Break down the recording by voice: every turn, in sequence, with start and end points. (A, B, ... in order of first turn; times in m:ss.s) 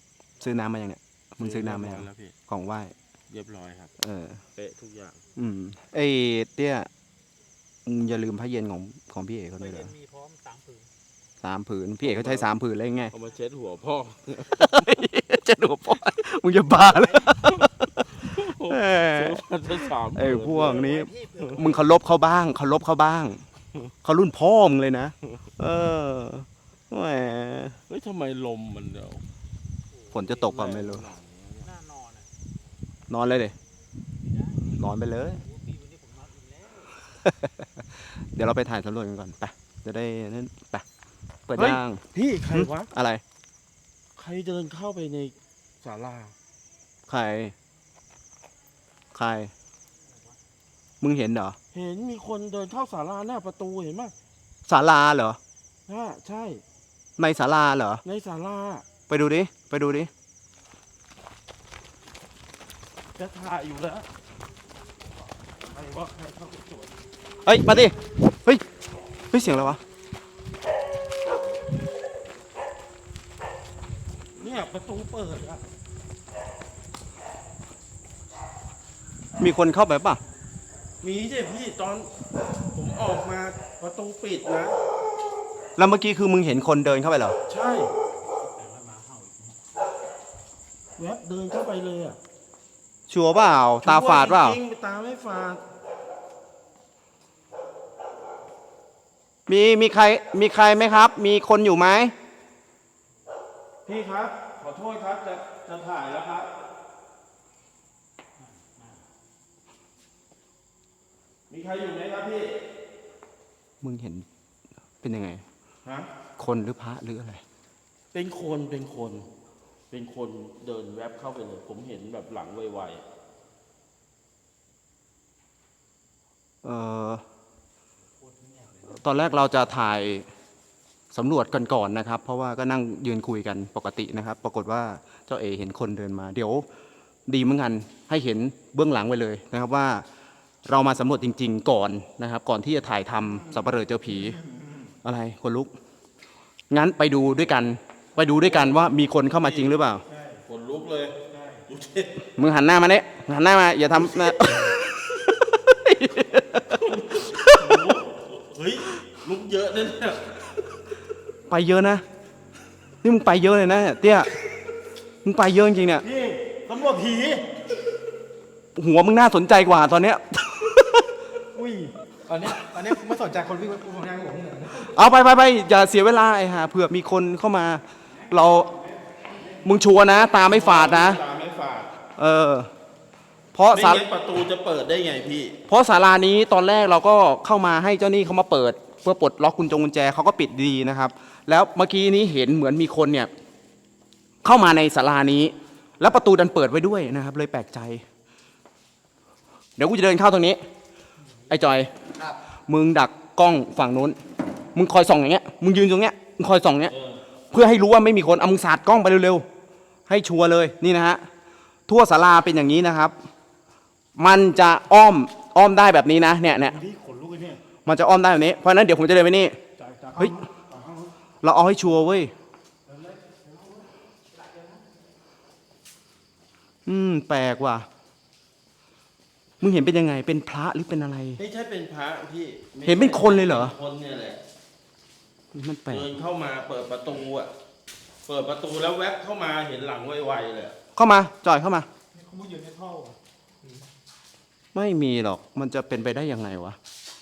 0:00.4-0:02.9 A
0:01.4-0:02.4 B
0:03.3-0:03.9 B
0:04.0-0:04.4 A
0:04.5-0:05.2 B
0:05.4-0:06.9 A
0:07.8-0:09.9 A
0:09.6-0:10.9 C
0:11.4-0:13.1 A
0:12.0-0:12.5 B
0:13.1-0:15.0 B
0:14.5-0:19.4 A
0:17.4-0:20.8 B
0:20.1-0:23.4 A
0:20.5-0:21.8 C
0:24.0-0:27.8 A
0:27.9-0:29.2 B
0:30.1-0:31.0 A
0:30.3-0:31.7 B
0:31.7-0:32.3 C
0:33.1-0:33.6 A
0:34.6-0:35.4 A
0:35.4-0:36.9 C
0:37.2-0:40.8 A
0:41.5-0:43.2 A
0:41.6-0:42.9 B
0:44.2-0:46.3 B
0:47.1-0:47.5 A
0:49.1-0:49.5 A
0:51.0-0:51.6 A
0:51.7-0:54.1 B
0:54.7-0:55.4 A
0:55.9-0:56.6 B
0:57.2-0:58.0 A
0:58.0-0:58.8 B
0:59.1-1:00.1 A
1:03.2-1:04.1 B
1:05.6-1:06.9 B
1:07.4-1:08.6 A
1:09.3-1:09.8 A
1:14.3-1:15.6 B
1:19.4-1:20.2 A
1:21.0-1:22.1 B
1:22.7-1:24.8 B
1:25.8-1:27.4 A
1:27.5-1:27.9 B
1:28.4-1:29.5 C
1:31.0-1:32.2 B
1:33.1-1:34.6 A
1:33.8-1:35.6 B
1:39.5-1:42.1 A
1:43.8-1:46.5 B
1:51.5-1:52.6 B
1:53.8-1:54.2 A
1:55.0-1:55.4 A
1:56.4-1:57.4 A
1:58.1-1:59.3 B
1:59.9-2:03.0 B
2:06.6-2:07.2 A
2:08.4-2:08.9 C
2:08.8-2:10.3 A
2:11.1-2:16.7 A
2:17.3-2:20.0 A
2:20.7-2:24.4 A
2:25.0-2:25.7 A
2:26.7-2:30.0 A
2:28.5-2:28.8 B
2:29.3-2:29.7 B
2:30.1-2:30.4 C
2:30.4-2:32.3 B
2:31.3-2:31.6 C
2:32.4-2:38.0 A
2:36.8-2:40.5 B
2:41.5-2:42.0 A
2:43.0-2:44.3 A
2:45.2-2:46.1 A
2:46.0-2:47.5 C
2:48.7-2:51.2 A
2:51.5-2:55.0 C
2:54.7-2:58.8 A
2:59.6-3:01.2 A
3:00.4-3:01.9 B
3:02.2-3:02.7 A
3:03.5-3:04.0 A
3:03.7-3:05.6 B
3:05.7-3:13.3 A
3:14.4-3:18.0 A
3:19.8-3:20.6 A
3:21.5-3:24.2 A
3:24.7-3:26.9 A
3:26.9-3:27.2 B
3:27.5-3:29.4 A
3:30.1-3:31.2 A
3:31.9-3:33.1 A
3:34.2-3:36.8 A
3:36.6-3:37.6 C
3:37.8-3:39.6 A
3:39.8-3:41.1 C
3:41.4-3:42.3 A
3:42.9-3:43.8 C
3:46.8-3:47.9 A
3:49.6-3:51.4 A
3:51.4-3:54.4 B
3:52.8-3:53.7 A
3:55.5-3:56.1 A
3:55.9-3:57.5 B
3:58.2-4:00.8 B
4:01.0-4:01.9 A
4:02.1-4:03.7 C
4:04.7-4:06.8 A